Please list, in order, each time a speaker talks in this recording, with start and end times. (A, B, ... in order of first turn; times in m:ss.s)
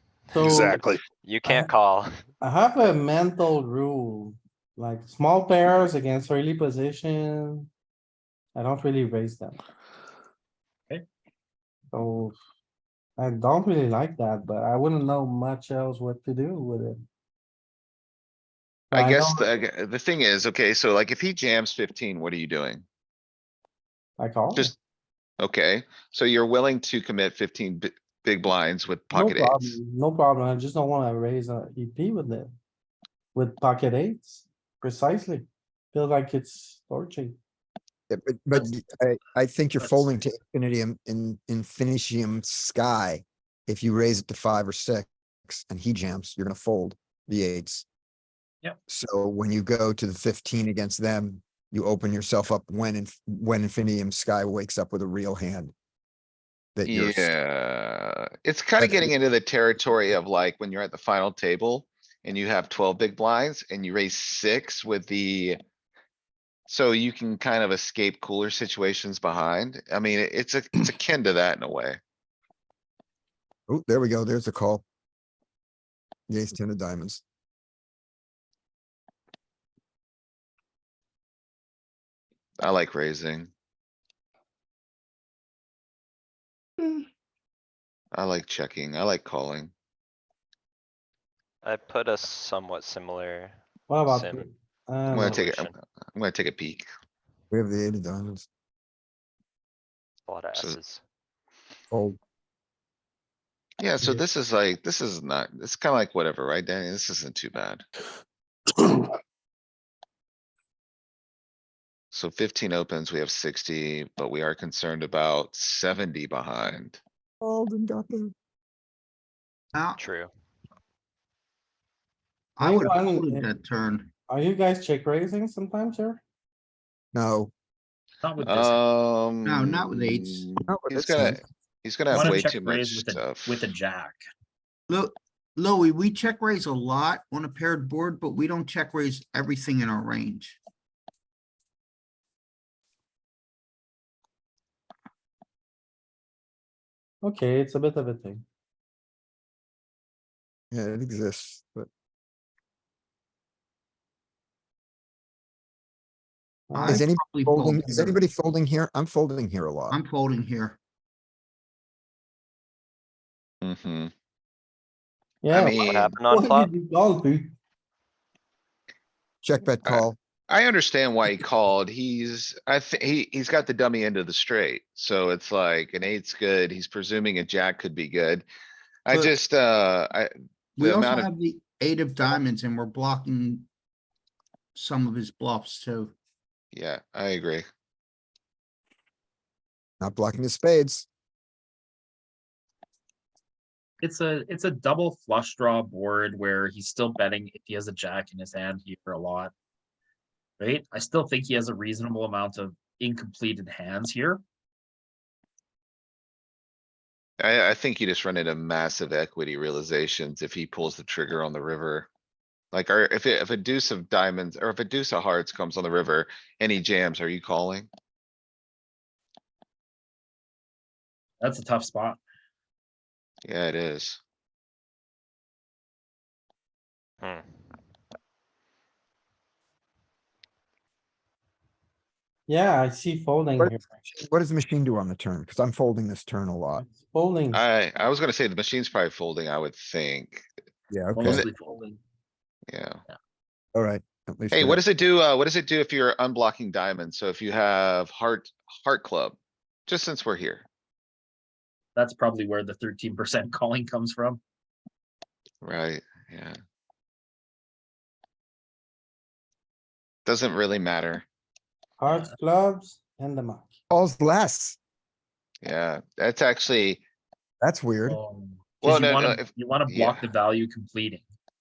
0:00.3-0:00.8 A
0:00.4-0:02.1 B
0:01.4-0:01.7 A
0:02.4-0:07.7 A
0:08.6-0:09.6 A
0:11.9-0:12.4 A
0:13.2-0:17.0 A
0:18.9-0:19.4 A
0:18.9-0:22.8 C
0:24.2-0:24.7 A
0:25.4-0:29.8 C
0:29.1-0:32.5 A
0:33.3-0:37.4 A
0:38.1-0:47.8 D
0:39.8-0:40.1 E
0:48.9-0:55.7 D
0:56.8-0:57.3 D
0:56.9-1:05.6 C
0:58.8-0:59.1 D
1:06.7-1:12.0 C
1:13.7-1:14.8 D
1:16.3-1:17.2 D
1:22.6-1:23.5 C
1:28.1-1:29.7 C
1:31.6-1:34.5 B
1:33.9-1:35.5 A
1:35.1-1:36.9 C
1:35.2-1:35.7 B
1:37.5-1:38.5 D
1:40.3-1:41.0 B
1:41.9-1:42.2 D
1:43.8-1:47.8 C
1:52.1-1:57.0 C
1:57.4-1:58.3 D
1:59.7-2:00.0 F
2:00.0-2:00.3 B
2:02.6-2:04.1 F
2:02.6-2:03.5 A
2:04.3-2:06.2 A
2:07.1-2:07.5 D
2:08.2-2:08.8 E
2:08.4-2:13.7 C
2:09.4-2:10.5 F
2:10.7-2:11.4 D
2:12.1-2:14.2 E
2:14.9-2:20.6 F
2:27.2-2:28.4 A
2:30.7-2:31.9 D
2:36.7-2:37.0 A
2:36.7-2:38.2 F
2:36.8-2:40.0 D
2:39.9-2:40.8 F
2:43.6-2:44.1 C
2:45.4-2:47.5 A
2:45.5-2:46.2 C
2:45.8-2:46.7 B
2:49.4-2:50.2 D
2:49.9-2:58.5 C
2:59.1-3:01.3 C
3:00.8-3:03.7 F
3:04.8-3:06.1 F
3:06.7-3:07.6 C
3:10.0-3:11.1 D
3:14.0-3:19.5 E
3:20.6-3:24.4 E
3:27.4-3:32.1 C
3:32.7-3:37.9 C
3:41.4-3:42.2 E
3:43.4-3:44.2 C
3:52.5-3:53.9 A
3:53.6-3:56.9 D
3:56.8-3:57.6 A
3:57.5-4:00.4 C
4:00.9-4:01.5 D
4:01.2-4:02.0 E
4:02.7-4:03.0 C
4:03.8-4:04.8 D
4:04.5-4:10.7 C
4:12.0-4:14.4 E
4:15.6-4:16.6 C
4:20.3-4:21.2 C
4:22.0-4:23.8 A
4:23.9-4:24.8 D
4:25.6-4:27.0 C
4:27.6-4:28.2 D
4:28.1-4:31.2 E
4:28.8-4:30.3 C